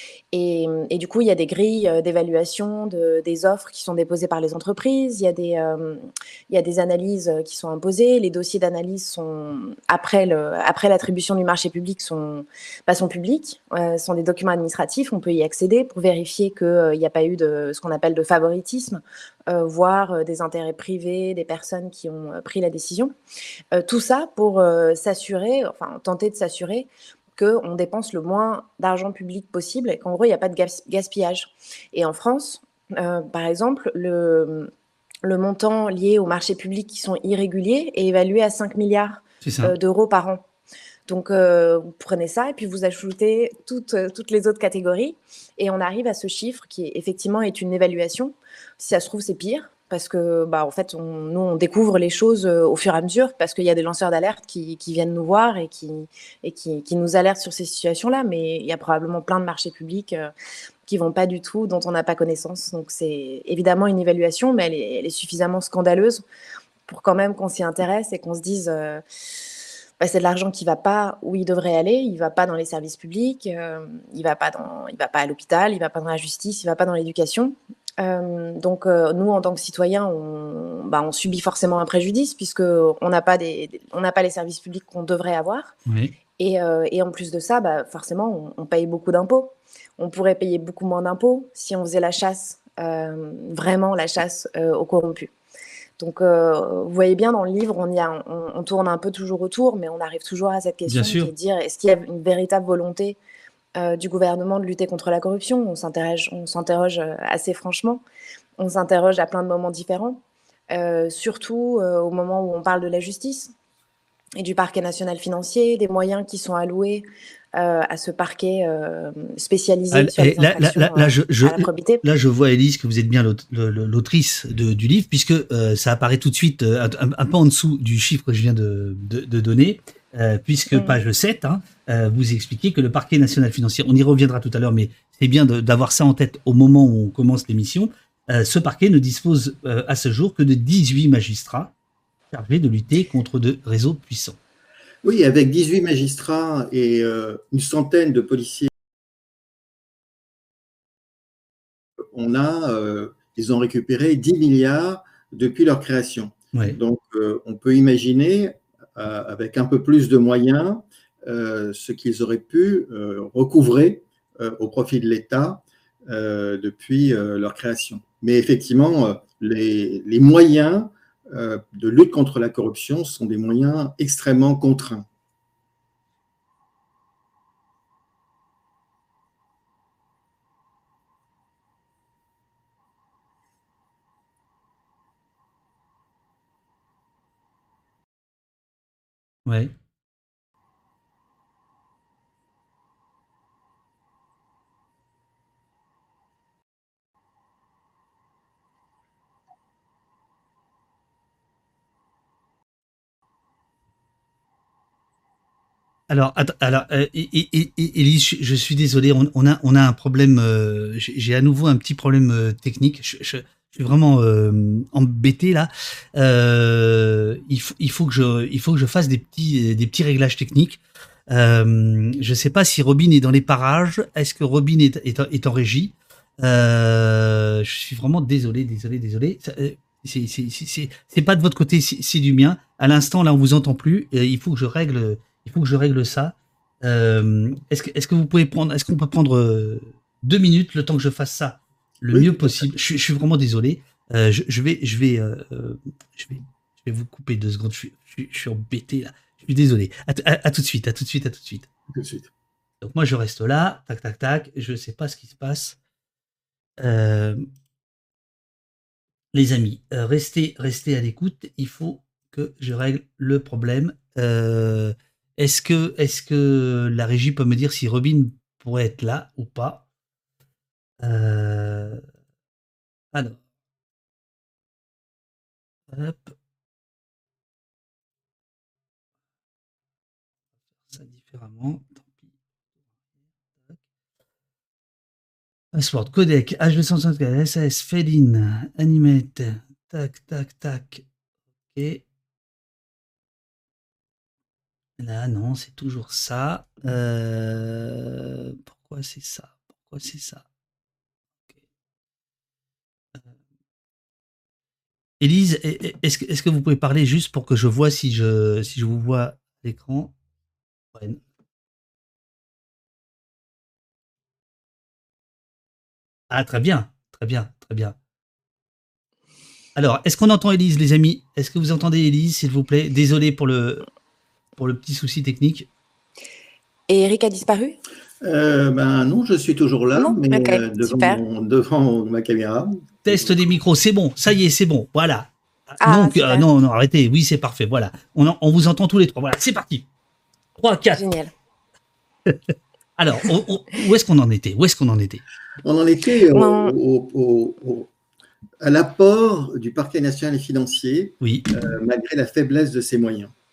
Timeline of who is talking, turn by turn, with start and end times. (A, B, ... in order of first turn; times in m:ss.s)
0:00.3-0:23.1 A
0:23.7-0:34.7 A
0:35.2-0:40.4 A
0:39.4-0:39.7 B
0:41.1-1:00.3 A
1:00.9-1:06.2 A
1:06.9-1:09.0 A
1:10.0-1:25.7 A
1:25.9-1:26.1 B
1:26.4-1:35.3 A
1:36.0-1:43.2 A
1:40.9-1:41.3 B
1:43.8-1:48.0 A
1:48.6-1:50.2 A
1:50.7-1:53.5 A
1:54.4-2:02.0 A
1:59.9-2:21.7 B
2:10.7-2:11.0 A
2:22.3-2:24.4 B
2:25.0-2:28.7 C
2:32.1-2:55.1 C
3:09.4-3:09.7 B
3:26.1-4:11.7 B
4:02.1-4:02.7 C
4:11.9-4:12.3 C
4:12.8-4:15.8 B
4:16.8-4:17.4 B
4:19.3-4:29.8 B
4:31.0-4:32.0 B
4:33.1-4:33.4 B
4:35.9-4:36.3 B
4:40.9-4:42.1 B
4:45.7-4:51.0 B
4:51.7-4:52.0 B
4:55.0-5:00.4 B
5:05.2-5:10.1 B
5:10.9-5:11.2 B
5:16.3-5:18.0 B
5:19.8-5:23.9 B
5:24.6-5:25.7 B
5:26.9-5:27.8 A
5:28.2-5:33.4 C
5:30.0-5:31.2 A
5:33.0-5:39.9 B
5:35.8-5:36.5 A
5:40.6-5:41.0 B
5:40.9-5:41.3 A
5:43.0-5:45.2 B
5:45.6-5:47.9 C
5:46.3-5:46.7 A
5:48.6-5:53.3 C
5:51.2-5:51.5 B